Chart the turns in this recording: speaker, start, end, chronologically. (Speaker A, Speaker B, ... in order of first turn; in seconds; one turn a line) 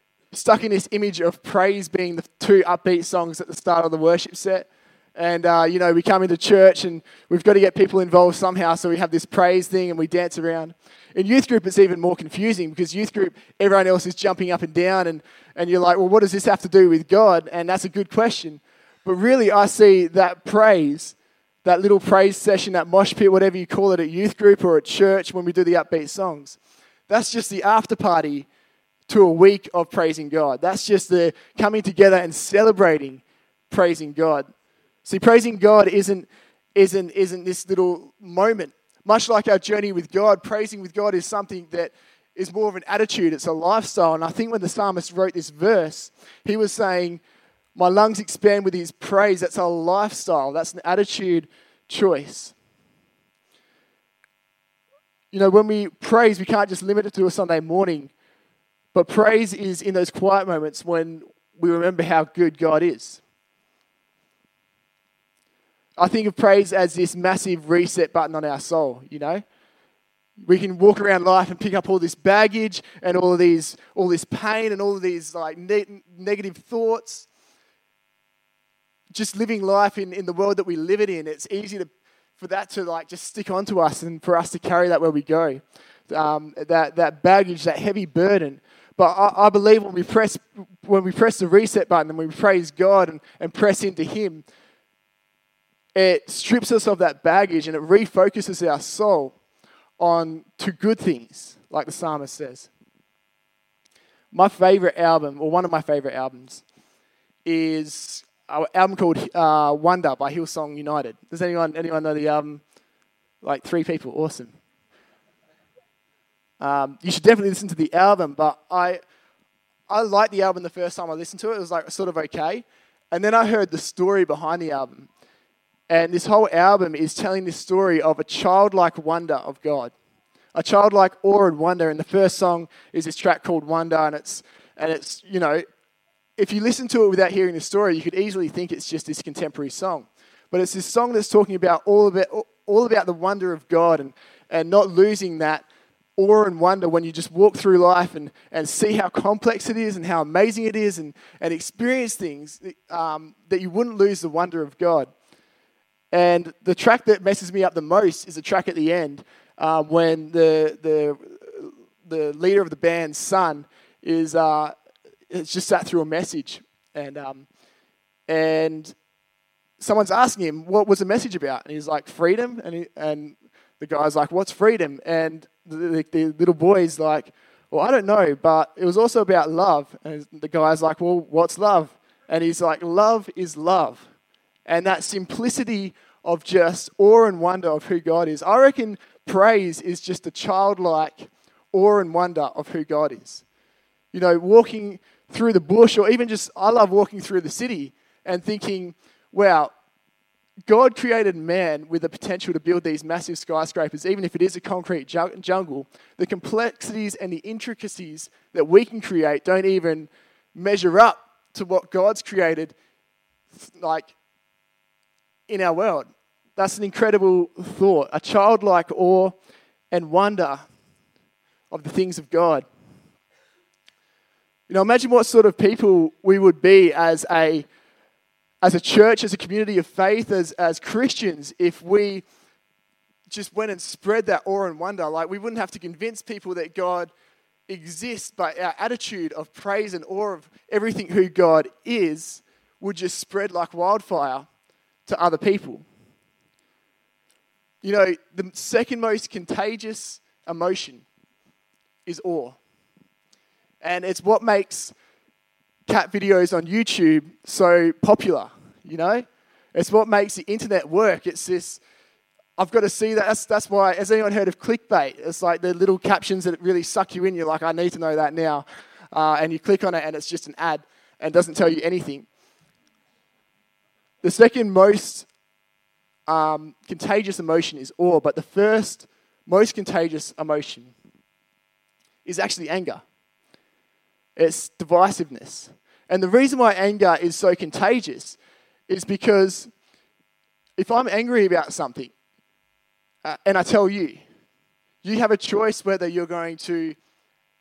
Speaker A: 0.3-26.6
Speaker A: 27.1-28.5
Speaker A: 29.1-34.5
Speaker A: 35.0-47.2
Speaker A: 47.8-52.5
Speaker A: 55.3-58.1
Speaker A: 58.9-63.2
Speaker A: 66.0-69.4
Speaker A: 70.4-77.3
Speaker A: 79.1-94.4
Speaker A: 96.0-99.3
Speaker A: 100.0-102.7
Speaker A: 104.3-106.6
Speaker A: 107.5-112.6
Speaker A: 113.4-114.5
Speaker A: 116.6-119.0
Speaker A: 119.9-125.1
Speaker A: 125.9-129.9
Speaker A: 130.5-135.6
Speaker A: 136.4-145.7
Speaker A: 146.2-155.1
Speaker A: 156.1-164.7
Speaker A: 165.3-167.5
Speaker A: 168.3-168.9
Speaker A: 169.8-184.1
Speaker A: 184.7-193.4
Speaker A: 194.1-199.7
Speaker A: 200.7-212.7
Speaker A: 213.6-214.1
Speaker A: 215.5-219.4
Speaker A: 219.9-220.6
Speaker A: 221.7-222.7
Speaker A: 224.7-227.7
Speaker A: 228.6-232.2
Speaker A: 233.3-237.1
Speaker A: 237.7-244.5
Speaker A: 245.1-245.8
Speaker A: 247.8-251.1
Speaker A: 252.1-252.6
Speaker A: 253.8-254.9
Speaker A: 255.9-261.8
Speaker A: 262.6-272.3
Speaker A: 274.2-275.3
Speaker A: 276.3-280.9
Speaker A: 282.2-283.0
Speaker A: 284.4-288.4
Speaker A: 288.9-289.7
Speaker A: 290.8-292.1
Speaker A: 293.2-294.2
Speaker A: 295.0-297.0